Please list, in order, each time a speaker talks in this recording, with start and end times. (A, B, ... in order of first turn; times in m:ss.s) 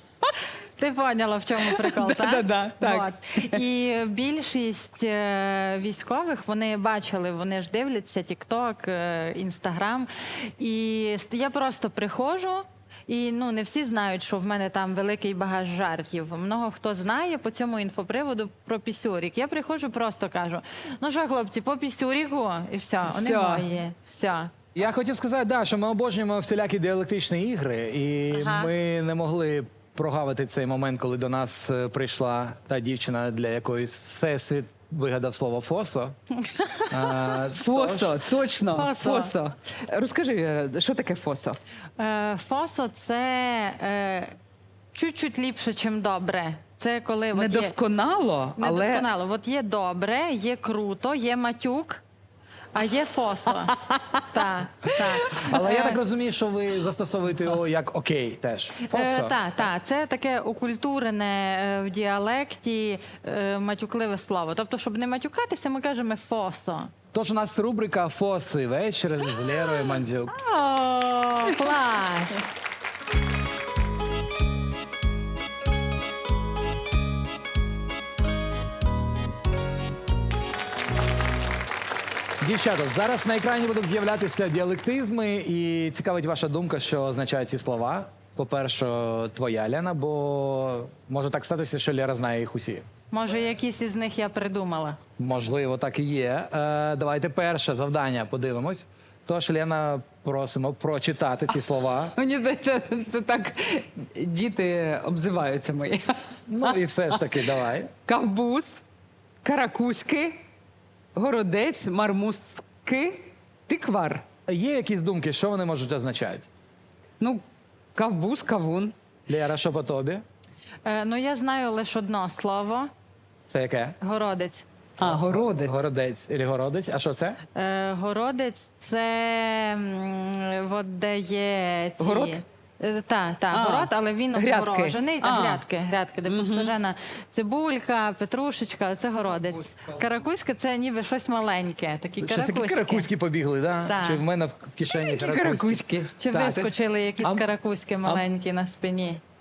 0:00.8-0:24.5 A
0:01.6-0:03.6 B
0:23.1-0:23.7 B
0:24.7-0:36.2 C
0:28.3-0:28.7 A
0:36.4-0:36.9 A
0:36.9-0:38.1 C
0:37.5-0:41.6 B
0:38.7-0:39.3 A
0:42.0-0:44.3 A
0:44.9-0:47.7 A
0:47.3-0:49.1 B
0:48.6-0:52.0 A
0:52.7-0:53.7 A
0:53.6-0:55.5 B
0:54.3-0:56.0 A
0:55.4-0:59.4 C
0:58.9-1:06.9 A
1:07.1-1:10.3 C
1:09.6-1:12.4 A
1:22.4-1:32.9 C
1:33.1-1:35.0 A
1:35.2-1:42.1 C
1:42.2-1:47.3 B
1:46.5-1:47.9 C
1:48.0-1:48.8 B
1:49.4-1:50.4 B
1:51.1-1:54.2 B
1:54.5-1:56.5 C
1:57.9-1:58.9 B
1:59.3-2:00.2 C
2:00.8-2:02.9 A
2:03.5-2:04.0 C
2:04.0-2:04.6 A
2:05.0-2:05.8 B
2:05.0-2:07.4 C
2:07.5-2:23.1 A
2:12.0-2:12.4 B
2:13.5-2:15.6 B
2:16.3-2:16.7 B
2:22.2-2:25.8 C
2:23.8-2:24.2 A
2:24.9-2:26.7 B
2:26.2-2:29.2 A